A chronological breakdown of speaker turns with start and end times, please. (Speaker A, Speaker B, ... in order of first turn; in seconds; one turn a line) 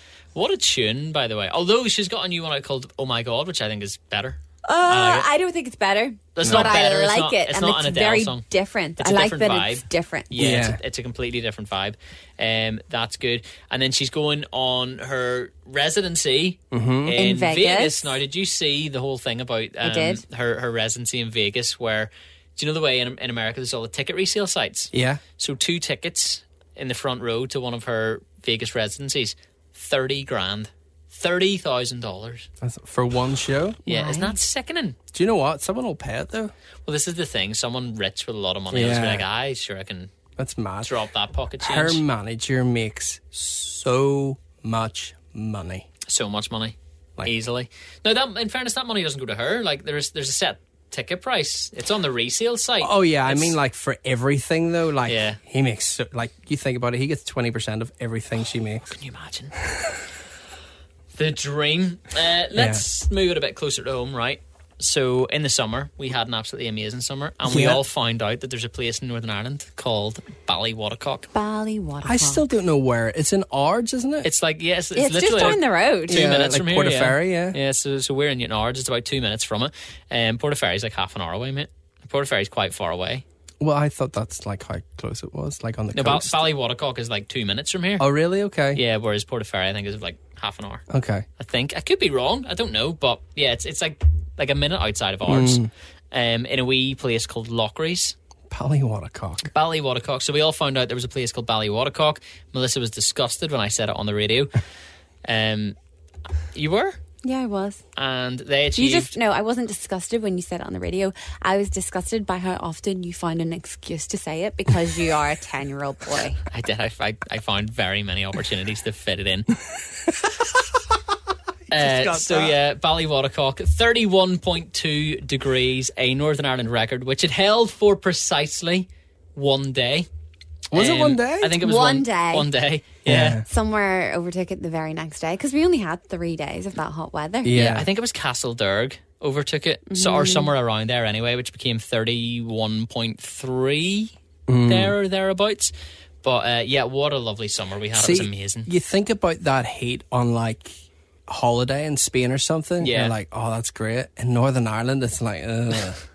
Speaker A: 0.3-5.3
Speaker B: 4.6-10.3
Speaker A: 6.4-8.4
Speaker C: 6.4-6.7
Speaker A: 9.0-32.5
Speaker C: 10.4-10.8
Speaker C: 16.7-17.2
Speaker B: 17.2-18.1
Speaker B: 19.8-20.2
Speaker C: 24.9-25.2
Speaker C: 32.6-33.8
Speaker B: 33.9-34.4
Speaker A: 33.9-35.0
Speaker C: 35.1-36.5
Speaker A: 36.9-40.1
Speaker C: 38.7-39.2
Speaker C: 40.4-40.9
Speaker A: 40.8-42.0
Speaker C: 41.6-45.9
Speaker A: 46.1-53.6
Speaker C: 52.8-58.9
Speaker A: 55.1-55.4
Speaker A: 58.9-59.5
Speaker C: 59.6-60.0
Speaker A: 61.1-71.3
Speaker C: 62.5-62.8
Speaker C: 67.5-67.8
Speaker B: 71.3-72.4
Speaker C: 72.0-74.3
Speaker A: 74.2-83.2
Speaker B: 75.0-76.3
Speaker C: 76.1-77.6
Speaker C: 83.6-86.4
Speaker A: 85.9-88.1
Speaker C: 88.0-88.8
Speaker A: 88.7-90.8
Speaker C: 90.9-91.2
Speaker A: 91.4-98.2
Speaker C: 95.3-95.7
Speaker C: 98.5-99.5
Speaker A: 99.5-104.5
Speaker A: 105.2-105.8
Speaker A: 106.5-107.0
Speaker B: 107.2-107.8
Speaker A: 108.0-109.1
Speaker B: 108.8-116.4
Speaker A: 116.5-119.5
Speaker A: 121.7-130.1
Speaker C: 121.7-122.6
Speaker C: 130.7-131.6
Speaker A: 130.7-133.4
Speaker B: 131.6-132.5
Speaker C: 133.1-133.4
Speaker B: 133.4-137.6
Speaker C: 137.4-137.9
Speaker A: 137.5-144.1
Speaker B: 139.9-140.5
Speaker C: 144.5-144.9
Speaker A: 144.7-148.7
Speaker C: 147.9-150.7
Speaker C: 151.3-156.0
Speaker A: 152.8-153.2